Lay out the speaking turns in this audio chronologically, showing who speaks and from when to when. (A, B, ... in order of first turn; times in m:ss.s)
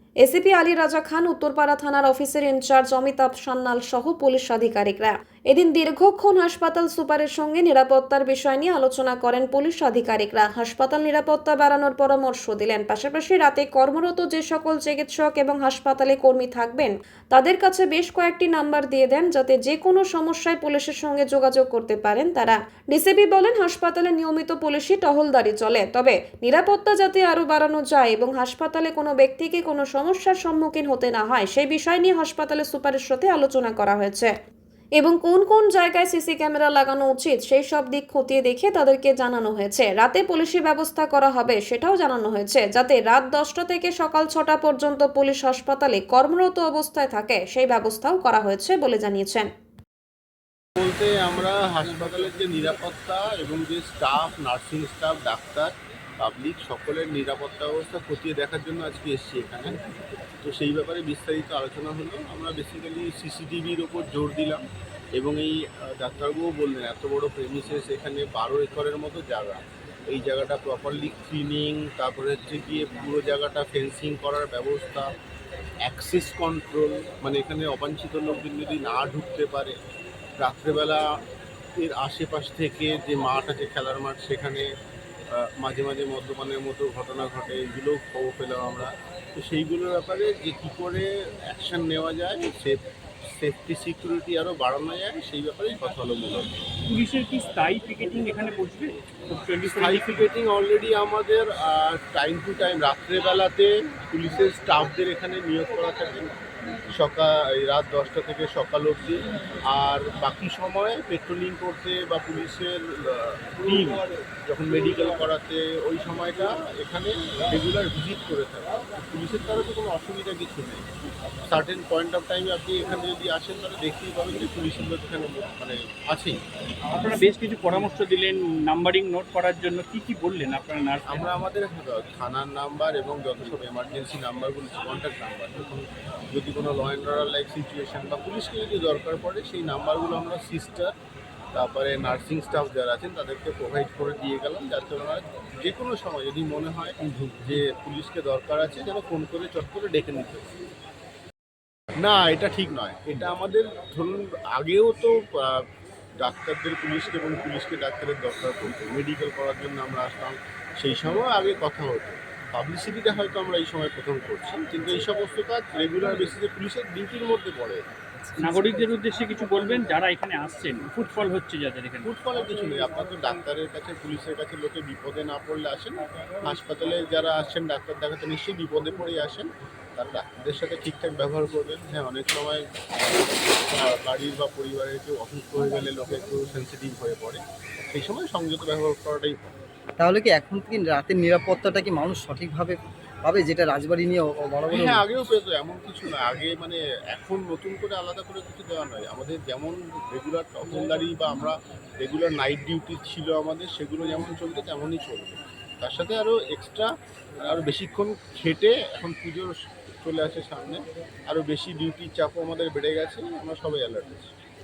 0:00.2-0:34.3 A
0:35.0-0:49.5 A
0:50.8-0:59.8 B
1:00.4-1:04.6 B
1:05.1-1:15.1 B
1:15.8-1:19.7 B
1:20.4-1:21.0 B
1:21.8-1:24.7 B
1:25.3-1:36.7 B
1:36.8-1:40.3 C
1:39.6-1:46.3 B
1:46.9-2:00.9 B
2:01.4-2:06.4 B
2:06.9-2:11.3 C
2:11.1-2:20.9 B
2:21.5-2:30.5 B
2:32.0-2:35.6 B
2:36.2-2:47.8 B
2:48.4-2:52.1 C
2:52.0-3:09.6 B
3:10.0-3:15.0 D
3:14.7-3:34.3 B